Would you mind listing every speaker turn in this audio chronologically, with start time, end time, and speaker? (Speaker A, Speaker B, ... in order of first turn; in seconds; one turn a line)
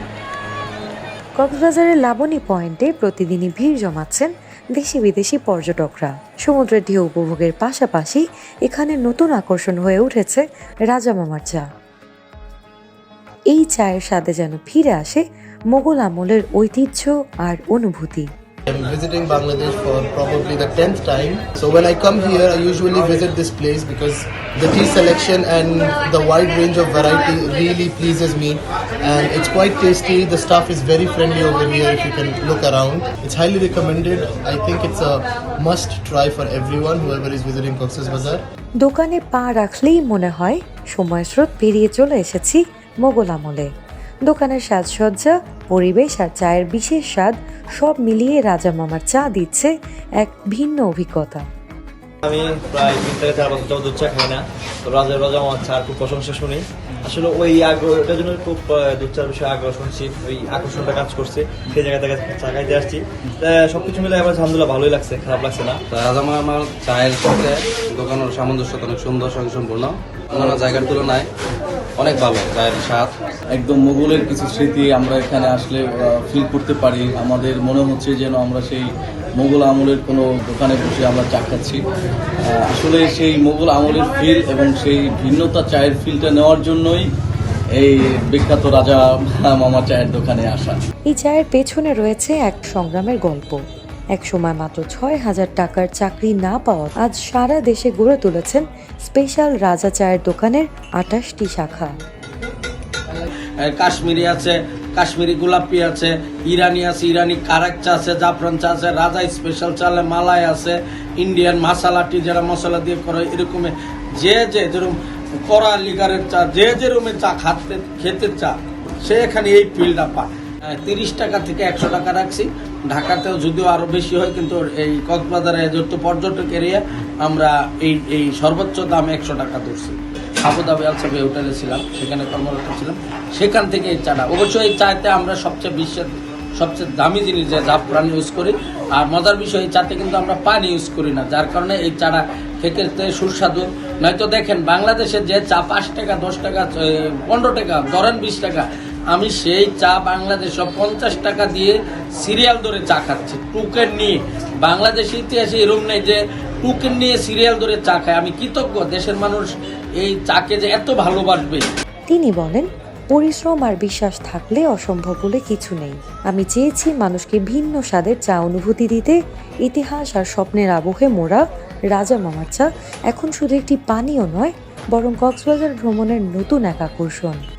Speaker A: 1.4-11.7
Speaker A: 13.5-18.3
Speaker B: 18.7-38.4
Speaker A: 38.8-43.7
Speaker A: 44.2-51.4
Speaker C: 52.2-65.8
Speaker D: 65.9-71.2
Speaker D: 72.0-73.1
Speaker E: 73.5-81.8
Speaker E: 82.4-87.1
Speaker E: 87.8-90.8
Speaker A: 91.1-93.6
Speaker A: 94.1-101.9
Speaker F: 103.6-161.7
Speaker A: 162.1-177.4